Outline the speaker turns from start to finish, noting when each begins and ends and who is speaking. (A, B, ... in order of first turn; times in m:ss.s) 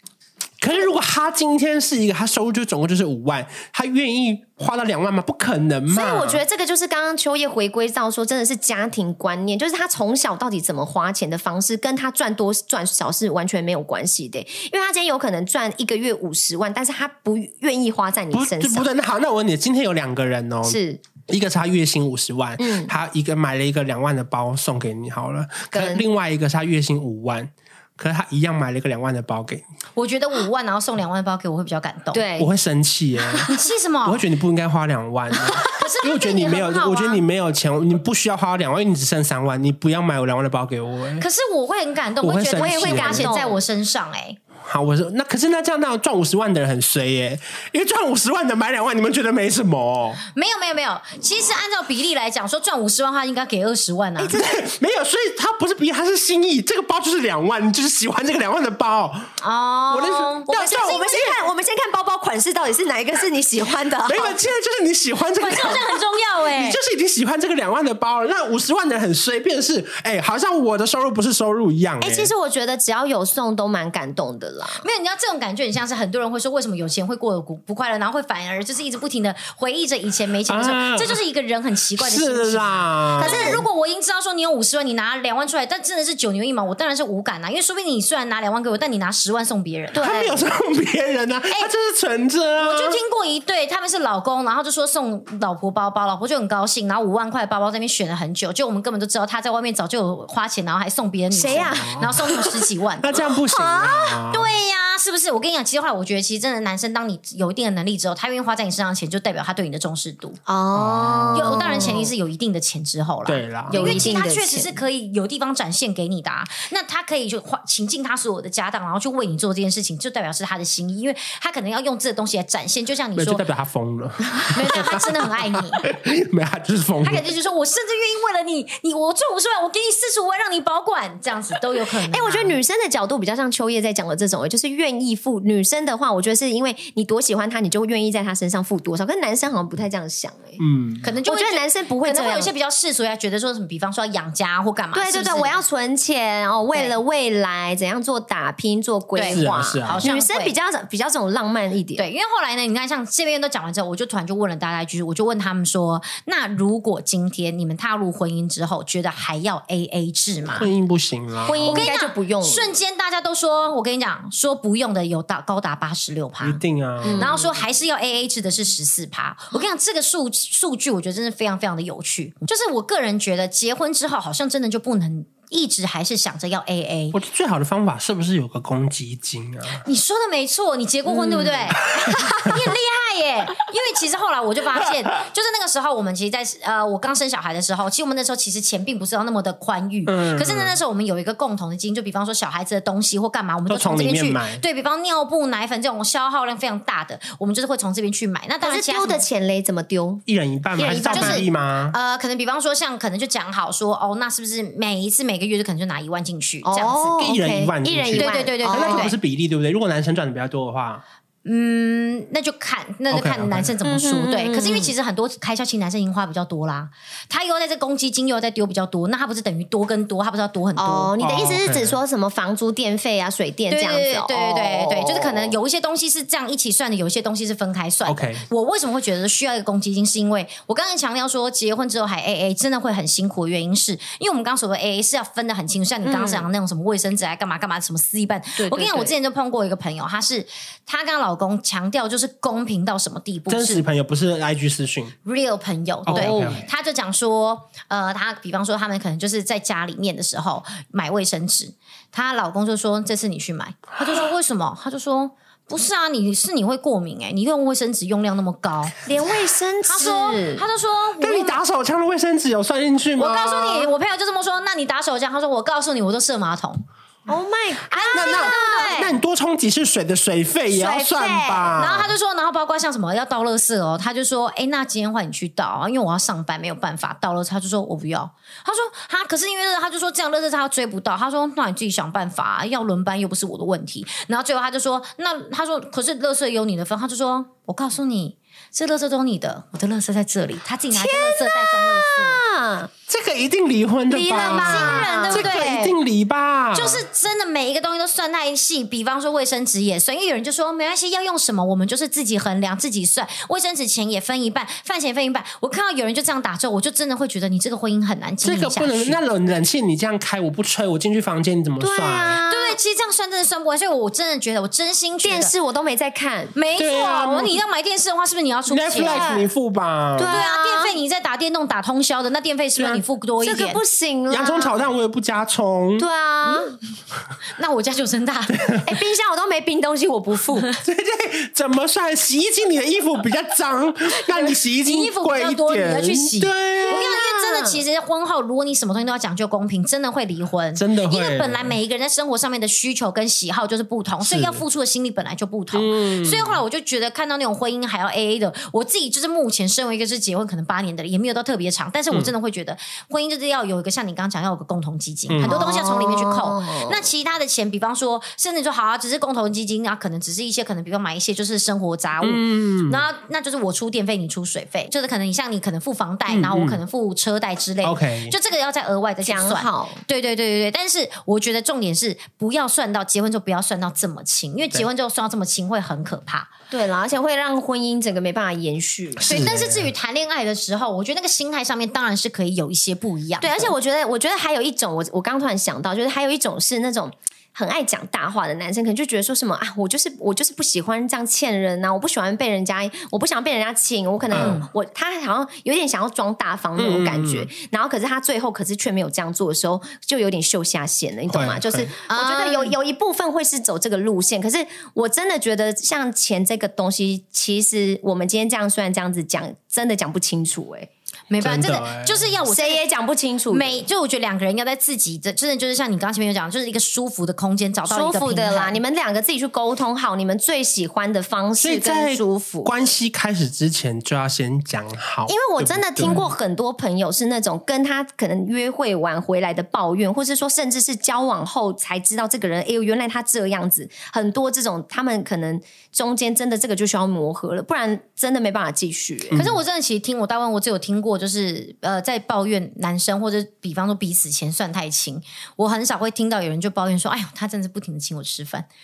0:00.6-0:06.4 A
0:05.9-0:18.9 B
0:18.3-0:29.6 A
0:20.6-0:21.0 B
0:22.6-0:22.9 B
0:25.7-0:26.0 B
0:30.0-0:32.2 C
0:32.1-0:32.5 B
0:32.4-0:33.5 A
0:33.5-0:34.2 C
0:34.0-0:41.3 A
0:35.5-0:35.7 B
0:35.7-0:37.2 C
0:41.2-0:44.4 C
0:42.2-0:43.4 A
0:42.5-0:43.6 B
0:44.6-0:50.2 A
0:50.4-0:54.4 C
0:54.2-0:54.6 B
0:54.3-0:59.3 A
0:59.4-1:01.0 C
0:59.9-1:01.4 A
1:00.4-1:04.4 B
1:04.1-1:05.9 A
1:05.4-1:06.8 C
1:06.5-1:12.3 A
1:12.0-1:14.8 B
1:14.8-1:30.1 C
1:20.5-1:21.2 A
1:22.0-1:23.6 A
1:23.2-1:23.6 B
1:29.9-1:30.4 B
1:30.0-1:33.0 A
1:32.6-1:43.2 C
1:41.3-1:42.5 B
1:41.5-1:42.2 A
1:43.0-1:44.5 A
1:43.5-1:44.2 B
1:44.2-1:50.4 C
1:50.5-1:52.1 B
1:50.7-1:52.0 A
1:51.3-2:03.4 C
1:53.3-1:54.2 A
1:53.7-1:54.8 B
2:03.2-2:07.2 A
2:04.5-2:05.9 C
2:07.0-2:12.6 C
2:11.9-2:20.6 B
2:20.6-2:21.0 A
2:21.0-2:25.6 C
2:21.2-2:22.5 B
2:25.0-2:32.1 B
2:29.2-2:30.6 C
2:29.3-2:30.1 A
2:32.0-2:40.7 C
2:40.5-2:41.9 A
2:41.5-2:42.8 B
2:41.6-2:57.2 C
2:46.4-2:47.3 A
2:47.0-2:47.5 B
2:57.1-2:59.8 A
2:59.8-3:19.2 C
3:01.1-3:01.8 B
3:10.1-3:10.8 A
3:13.7-3:14.6 A
3:18.6-3:20.2 B
3:20.3-3:22.0 A
3:20.8-3:21.5 B
3:20.9-3:27.3 C
3:26.6-3:29.1 B
3:27.2-3:31.0 A
3:28.2-3:29.1 C
3:31.4-3:41.1 C
3:33.1-3:33.7 A
3:33.8-3:34.9 B
3:40.8-3:45.5 B
3:41.2-3:42.0 A
3:43.7-4:03.8 C
3:48.1-3:48.4 A
3:56.0-3:56.5 B
3:58.6-3:59.1 B
4:03.5-4:05.2 A
4:05.2-4:19.0 C
4:06.1-4:06.7 A
4:06.1-4:06.6 B
4:19.0-4:20.6 B
4:19.9-4:21.6 C
4:21.2-4:23.9 A
4:23.2-4:26.8 C
4:27.3-4:29.1 B
4:27.9-4:29.1 C
4:28.1-4:32.1 A
4:30.7-4:31.8 B
4:31.8-4:52.4 C
4:50.9-4:52.9 B
4:53.1-4:57.0 A
4:54.1-4:55.9 B
4:54.3-4:55.9 C
4:56.8-5:09.2 C
5:08.4-5:12.4 A
5:11.8-5:12.8 B
5:12.5-5:15.5 C
5:15.2-5:16.5 B
5:16.6-5:19.3 C
5:16.8-5:17.6 A
5:18.7-5:20.4 A
5:19.1-5:19.5 B
5:20.2-5:21.0 B
5:20.3-5:23.8 C
5:22.8-5:23.0 A
5:23.4-5:24.8 B
5:24.3-5:26.1 A
5:26.0-5:26.8 B
5:27.6-5:28.8 C
5:28.5-5:28.9 A
5:28.8-5:30.8 B
5:30.8-5:37.2 A
5:34.8-6:16.5 C
5:36.8-5:37.8 B
5:40.8-5:41.8 A
5:44.2-5:44.6 A
5:45.7-5:46.6 A
5:55.3-5:55.8 A
5:55.5-5:57.1 B
6:02.2-6:03.0 A
6:06.3-6:06.8 A
6:07.8-6:08.3 A
6:09.2-6:10.0 B
6:16.7-6:19.3 B
6:19.2-6:19.9 A
6:19.2-6:23.7 C
6:23.4-6:50.9 B
6:34.3-6:34.6 A
6:34.3-6:34.7 C
6:36.8-6:37.5 A
6:41.3-6:41.9 A
6:42.1-6:42.8 C
6:51.3-6:52.8 C
6:51.4-6:52.3 A
6:52.5-6:53.8 B
6:53.5-6:58.8 C
6:57.9-7:02.8 B
7:01.6-7:06.2 A
7:05.3-7:19.4 B
7:19.3-7:19.6 A
7:19.3-7:28.7 C